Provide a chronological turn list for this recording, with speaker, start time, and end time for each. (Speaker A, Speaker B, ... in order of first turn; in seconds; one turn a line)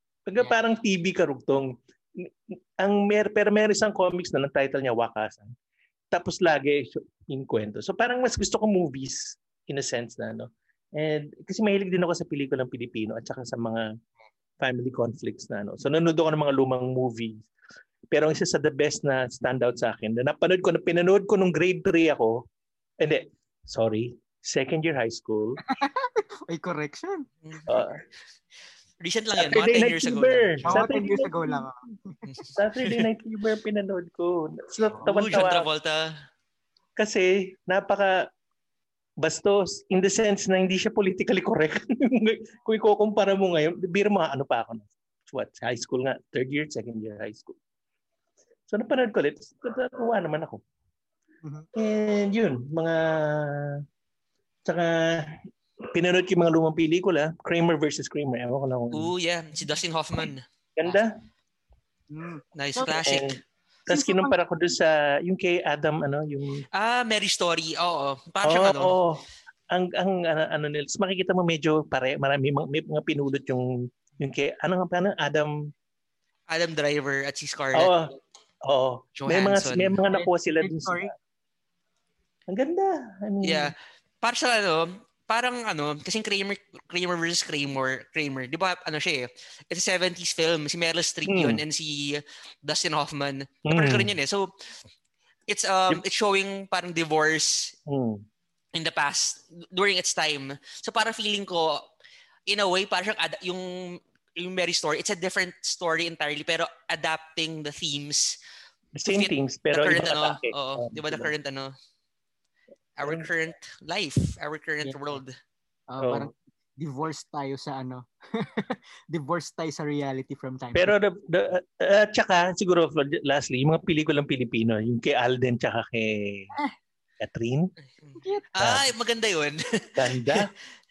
Speaker A: 0.2-5.5
Speaker A: 6.1-13.8
Speaker A: 14.6-17.5
Speaker A: 18.1-22.4
Speaker A: 23.0-25.6
Speaker B: 25.7-27.2
Speaker A: 27.7-28.0
Speaker C: 29.0-30.8
Speaker A: 29.4-31.6
Speaker B: 30.6-32.2
Speaker C: 32.3-33.0
Speaker A: 32.5-35.7
Speaker B: 34.8-35.0
Speaker C: 35.0-36.1
Speaker A: 37.0-38.3
Speaker A: 39.2-47.5
Speaker A: 48.7-50.6
Speaker A: 51.7-53.8
Speaker A: 54.6-59.1
Speaker C: 58.9-60.4
Speaker A: 60.8-61.1
Speaker B: 62.1-63.0
Speaker C: 62.5-63.3
Speaker A: 63.0-66.6
Speaker B: 63.9-64.3
Speaker C: 66.7-68.9
Speaker A: 68.4-75.5
Speaker C: 76.5-77.9
Speaker A: 77.7-78.1
Speaker A: 78.6-81.1
Speaker C: 79.2-80.0
Speaker B: 80.1-81.1
Speaker A: 82.5-83.7
Speaker C: 83.4-94.5
Speaker A: 91.3-91.6
Speaker A: 93.7-94.1
Speaker C: 95.5-97.7
Speaker A: 97.9-98.2
Speaker C: 98.7-101.8
Speaker C: 102.5-108.4
Speaker A: 109.0-111.3
Speaker C: 109.1-111.7
Speaker C: 113.0-115.3
Speaker A: 113.0-113.3
Speaker B: 114.8-115.2
Speaker B: 115.9-120.9
Speaker A: 116.0-116.3
Speaker A: 120.7-126.5
Speaker A: 127.2-127.7
Speaker C: 128.0-130.5
Speaker B: 128.2-128.4
Speaker A: 128.6-128.9
Speaker A: 130.0-130.5